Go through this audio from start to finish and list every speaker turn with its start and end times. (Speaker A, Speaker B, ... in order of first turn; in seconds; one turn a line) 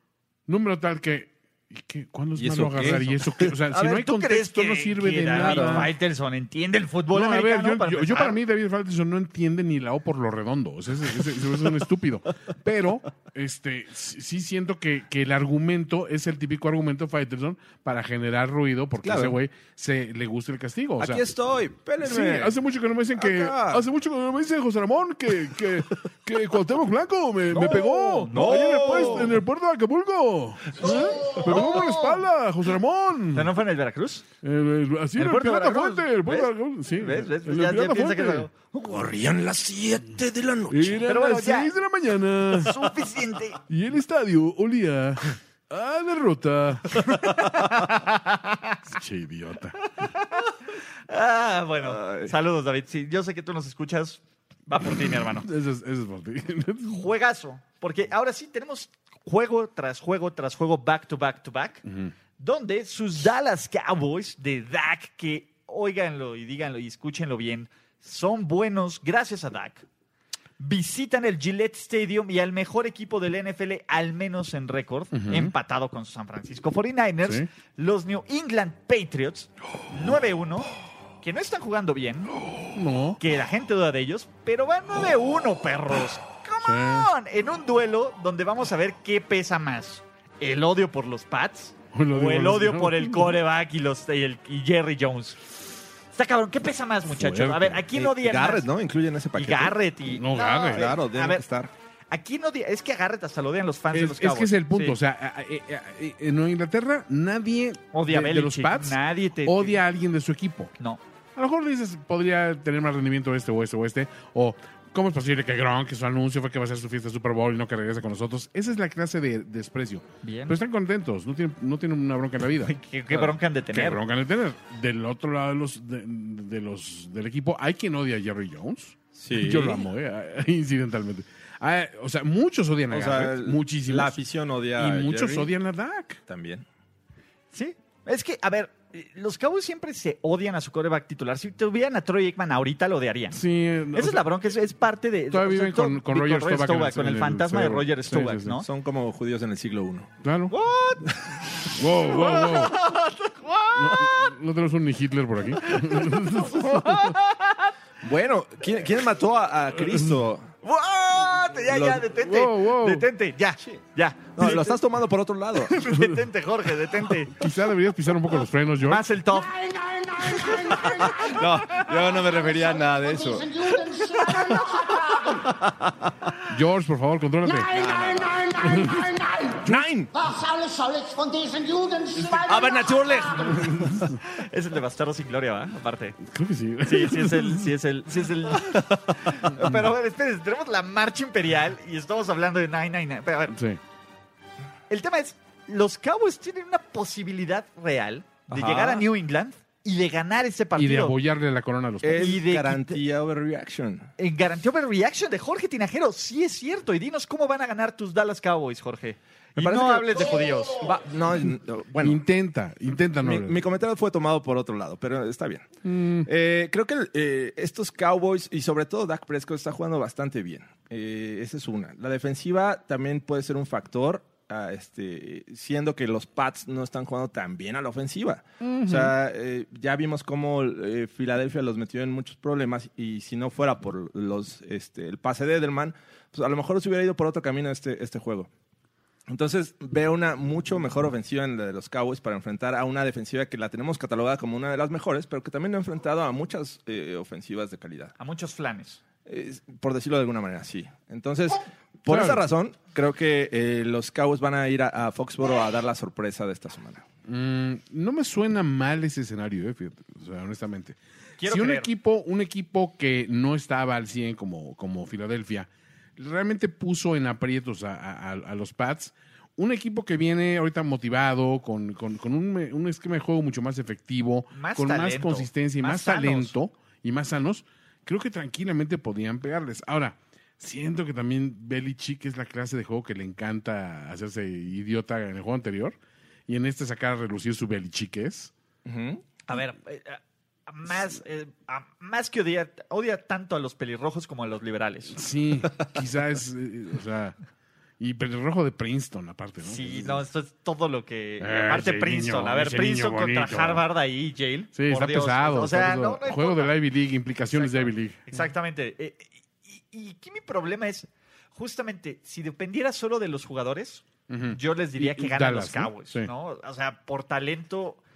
Speaker A: 0.5-5.9
Speaker B: 2.4-3.6
Speaker C: 3.7-8.4
Speaker B: 5.3-5.9
Speaker A: 7.1-21.2
Speaker B: 19.0-19.4
Speaker B: 21.0-22.6
Speaker A: 22.0-33.6
Speaker B: 23.1-23.8
Speaker C: 27.5-29.3
Speaker B: 28.3-29.4
Speaker B: 30.8-31.1
Speaker C: 30.8-32.2
Speaker C: 33.3-34.2
Speaker A: 34.4-38.5
Speaker C: 35.2-38.5
Speaker B: 38.7-41.0
Speaker A: 40.7-42.9
Speaker C: 41.0-41.7
Speaker C: 42.5-43.6
Speaker A: 43.7-47.1
Speaker C: 47.1-48.8
Speaker A: 48.9-49.8
Speaker C: 49.8-50.5
Speaker C: 51.1-55.5
Speaker B: 51.9-52.3
Speaker A: 55.4-57.1
Speaker C: 56.9-61.8
Speaker A: 61.9-62.1
Speaker C: 62.4-69.8
Speaker C: 70.6-80.7
Speaker A: 75.1-75.5
Speaker C: 81.2-82.3
Speaker A: 82.7-83.2
Speaker C: 83.2-95.4
Speaker A: 86.6-87.1
Speaker A: 91.9-93.4
Speaker C: 96.1-98.7
Speaker A: 97.1-97.8
Speaker B: 97.9-99.8
Speaker C: 99.3-101.4
Speaker A: 100.1-100.9
Speaker B: 100.7-101.7
Speaker C: 102.1-105.0
Speaker A: 103.9-110.7
Speaker C: 107.9-109.8
Speaker A: 111.3-122.7
Speaker C: 120.2-120.6
Speaker C: 122.6-124.0
Speaker A: 123.7-134.2
Speaker B: 129.2-129.9
Speaker B: 132.9-135.5
Speaker A: 134.8-136.2
Speaker B: 136.3-136.6
Speaker C: 137.5-143.4
Speaker A: 143.3-144.2
Speaker C: 143.9-148.7
Speaker A: 145.3-148.6
Speaker B: 148.6-150.1
Speaker A: 150.2-150.5
Speaker C: 150.5-151.1
Speaker C: 151.7-154.3
Speaker A: 151.7-152.8
Speaker A: 153.8-157.1
Speaker C: 155.6-157.7
Speaker B: 158.0-160.5
Speaker A: 159.8-160.2
Speaker C: 160.6-164.8
Speaker B: 161.7-162.1
Speaker A: 162.1-163.1
Speaker B: 164.4-165.8
Speaker C: 165.7-167.5
Speaker A: 167.2-169.1
Speaker C: 168.8-171.8
Speaker D: 169.7-170.0
Speaker B: 170.3-176.1
Speaker D: 170.6-171.1
Speaker D: 173.0-174.9
Speaker A: 176.5-177.8
Speaker B: 177.7-178.9
Speaker D: 177.7-179.6
Speaker A: 178.5-179.9
Speaker B: 179.6-180.3
Speaker D: 180.2-183.1
Speaker B: 182.1-184.1
Speaker A: 183.5-184.2
Speaker C: 184.2-186.2
Speaker A: 186.2-187.7
Speaker C: 186.8-193.6
Speaker B: 188.7-188.9
Speaker A: 189.6-189.9
Speaker A: 193.5-193.8
Speaker C: 194.9-201.2
Speaker B: 198.5-199.1
Speaker A: 200.8-202.4
Speaker B: 202.0-204.1
Speaker C: 202.1-203.0
Speaker C: 204.2-210.9
Speaker B: 209.6-212.2
Speaker A: 212.0-213.6
Speaker B: 213.2-215.7
Speaker A: 215.8-216.3
Speaker B: 216.2-238.5
Speaker A: 228.6-229.1
Speaker B: 239.3-248.1
Speaker C: 248.2-249.0
Speaker B: 249.2-257.0
Speaker A: 252.1-252.4
Speaker A: 257.3-288.5
Speaker C: 261.4-261.9
Speaker C: 274.5-276.5
Speaker B: 288.8-289.2
Speaker C: 289.5-295.2
Speaker A: 295.1-297.4
Speaker A: 298.0-300.2
Speaker C: 299.6-306.7
Speaker A: 301.4-303.9
Speaker A: 304.7-308.2
Speaker C: 307.5-318.0
Speaker A: 314.3-316.3